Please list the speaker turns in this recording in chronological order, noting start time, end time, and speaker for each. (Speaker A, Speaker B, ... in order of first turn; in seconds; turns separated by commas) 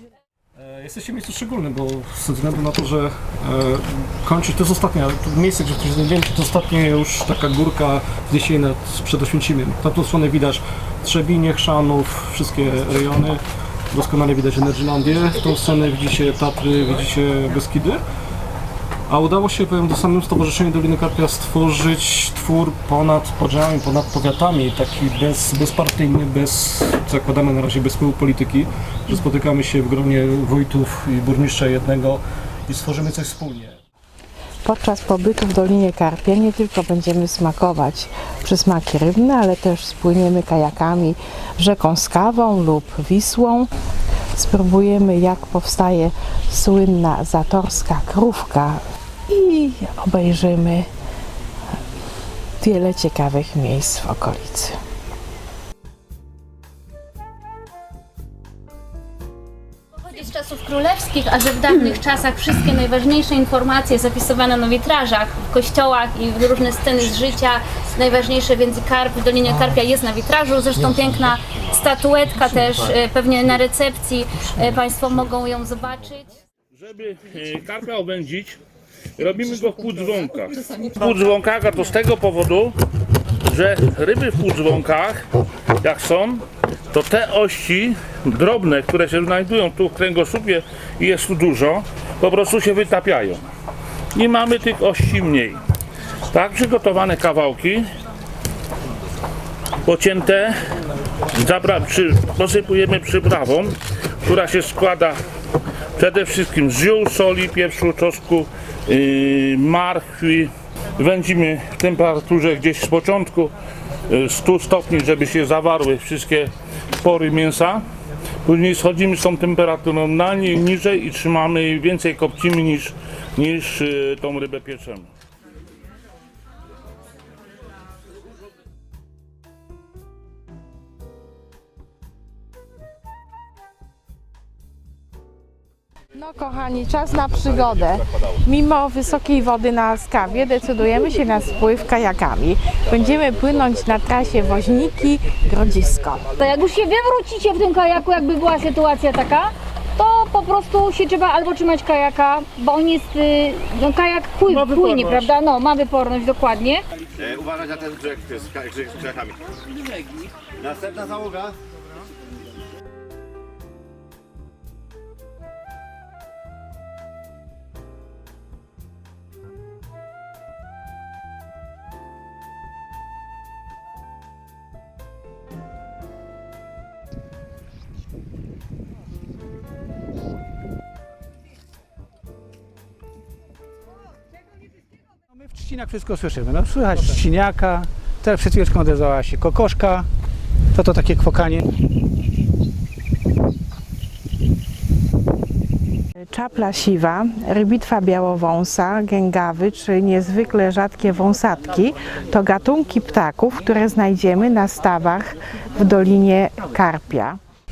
Speaker A: 0.6-18.0, Speaker A: 19.1-33.8, Speaker B: 34.6-43.7, Speaker B: 44.3-50.9, Speaker B: 52.6-54.8, Speaker C: 60.1-76.3, Speaker D: 76.7-78.6, Speaker D: 79.2-82.7, Speaker D: 83.4-85.2, Speaker D: 85.8-93.4, Speaker D: 94.1-95.6, Speaker D: 96.3-97.8, Speaker D: 99.8-100.5, Speaker D: 101.3-105.2, Speaker D: 106.0-113.5, Speaker D: 114.1-117.8, Speaker D: 118.4-125.1, Speaker B: 136.2-146.2, Speaker E: 146.4-156.8, Speaker D: 154.6-155.3, Speaker F: 157.2-159.3, Speaker F: 160.6-161.5, Speaker G: 185.4-190.1, Speaker G: 190.7-191.7, Speaker B: 196.3-207.4